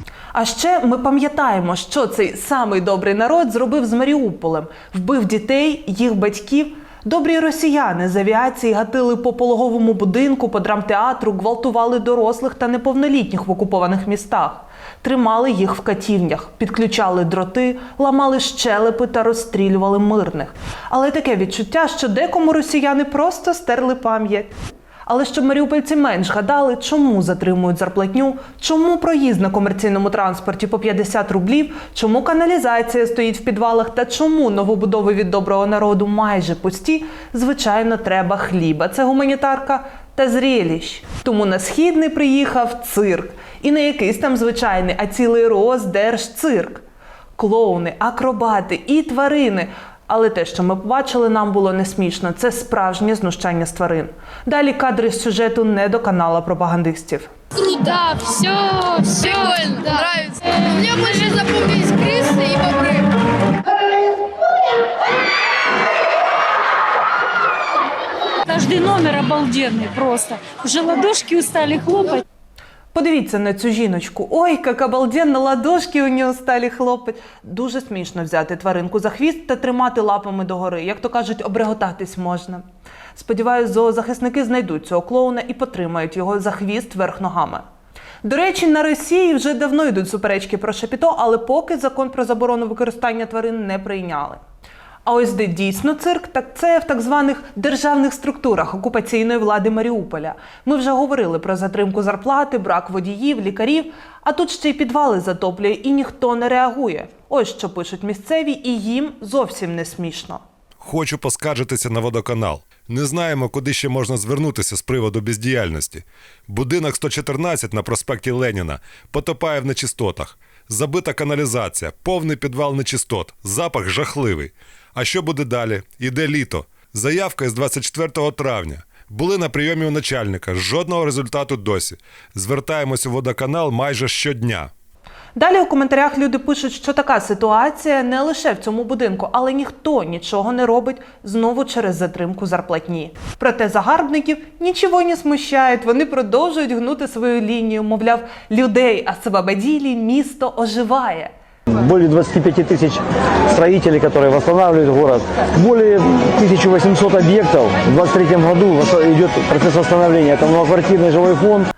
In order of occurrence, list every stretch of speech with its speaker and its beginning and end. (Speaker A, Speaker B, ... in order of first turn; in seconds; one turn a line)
Speaker A: 0.3-24.5
Speaker A: 25.1-46.8
Speaker A: 47.4-57.3
Speaker B: 57.6-58.7
Speaker C: 57.9-60.1
Speaker B: 59.2-63.1
Speaker C: 68.5-72.2
Speaker A: 72.9-82.6
Speaker A: 83.2-87.7
Speaker A: 88.2-94.4
Speaker A: 95.0-110.4
Speaker D: 110.8-134.7
Speaker A: 135.3-151.3
Speaker E: 151.7-161.7